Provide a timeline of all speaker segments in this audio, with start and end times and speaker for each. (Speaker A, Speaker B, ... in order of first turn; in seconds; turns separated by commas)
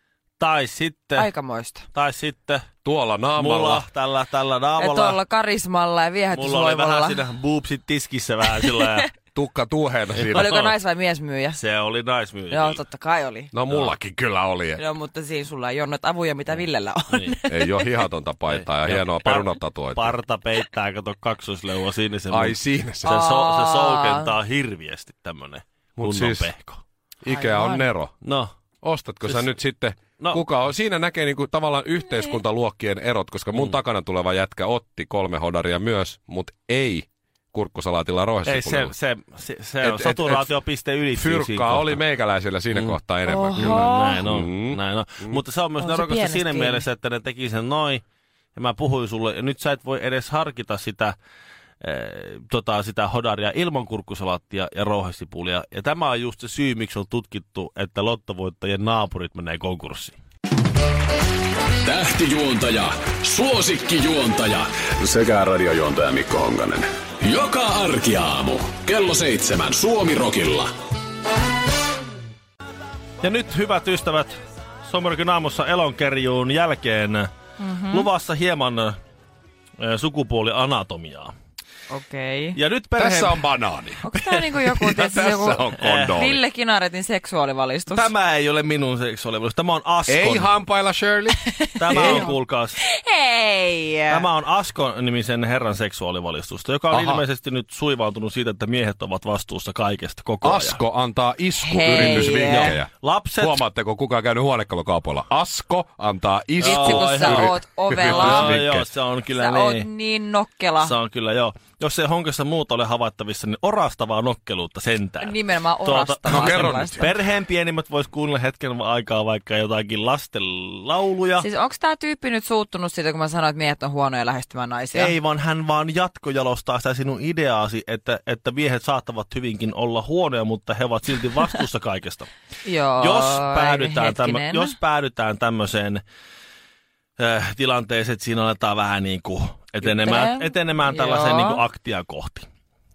Speaker A: 0.4-1.3, Speaker B: 1.1-1.9, Speaker A: 1.9-2.6, Speaker C: 2.8-3.9, Speaker A: 3.4-5.2, Speaker B: 4.8-7.2, Speaker A: 6.3-9.1, Speaker B: 8.8-9.1, Speaker C: 9.3-10.6, Speaker A: 10.1-10.8, Speaker B: 10.3-11.6, Speaker A: 11.6-12.8, Speaker B: 12.5-13.5, Speaker C: 13.5-14.8, Speaker A: 13.7-13.9, Speaker B: 14.8-17.8, Speaker A: 16.6-17.4, Speaker C: 17.5-20.1, Speaker A: 18.5-26.8, Speaker C: 22.3-23.2, Speaker B: 23.0-24.3, Speaker C: 26.0-26.5, Speaker C: 27.2-28.1, Speaker B: 27.3-27.9, Speaker A: 28.2-28.5, Speaker C: 28.8-38.9, Speaker A: 29.2-29.6, Speaker A: 30.2-30.4, Speaker B: 32.1-32.4, Speaker A: 38.4-42.0, Speaker C: 39.8-40.5, Speaker C: 41.1-45.4, Speaker A: 42.7-43.0, Speaker B: 43.3-44.2, Speaker A: 43.5-48.0, Speaker B: 45.8-46.8, Speaker A: 48.5-51.1, Speaker A: 51.8-60.2, Speaker D: 61.8-70.7, Speaker A: 73.2-77.3, Speaker B: 77.6-78.1, Speaker A: 77.9-79.0, Speaker A: 79.8-81.3, Speaker B: 81.9-82.6, Speaker A: 82.5-83.5, Speaker C: 83.0-84.0, Speaker B: 84.0-88.1, Speaker A: 84.1-84.6, Speaker C: 84.7-86.4, Speaker A: 85.8-86.2, Speaker A: 87.9-90.5, Speaker C: 90.1-92.3, Speaker B: 91.4-94.3, Speaker A: 91.8-92.8, Speaker A: 94.1-100.8, Speaker C: 96.9-97.2, Speaker C: 100.4-108.9, Speaker B: 101.6-102.8, Speaker A: 101.9-103.6, Speaker A: 106.6-109.9, Speaker B: 106.6-108.6, Speaker B: 109.3-111.0, Speaker A: 110.8-121.5, Speaker B: 115.2-117.1, Speaker C: 116.3-117.1, Speaker B: 121.4-125.1, Speaker A: 124.9-132.3, Speaker B: 132.6-134.8, Speaker A: 133.0-136.0, Speaker A: 137.2-142.4, Speaker B: 139.8-141.6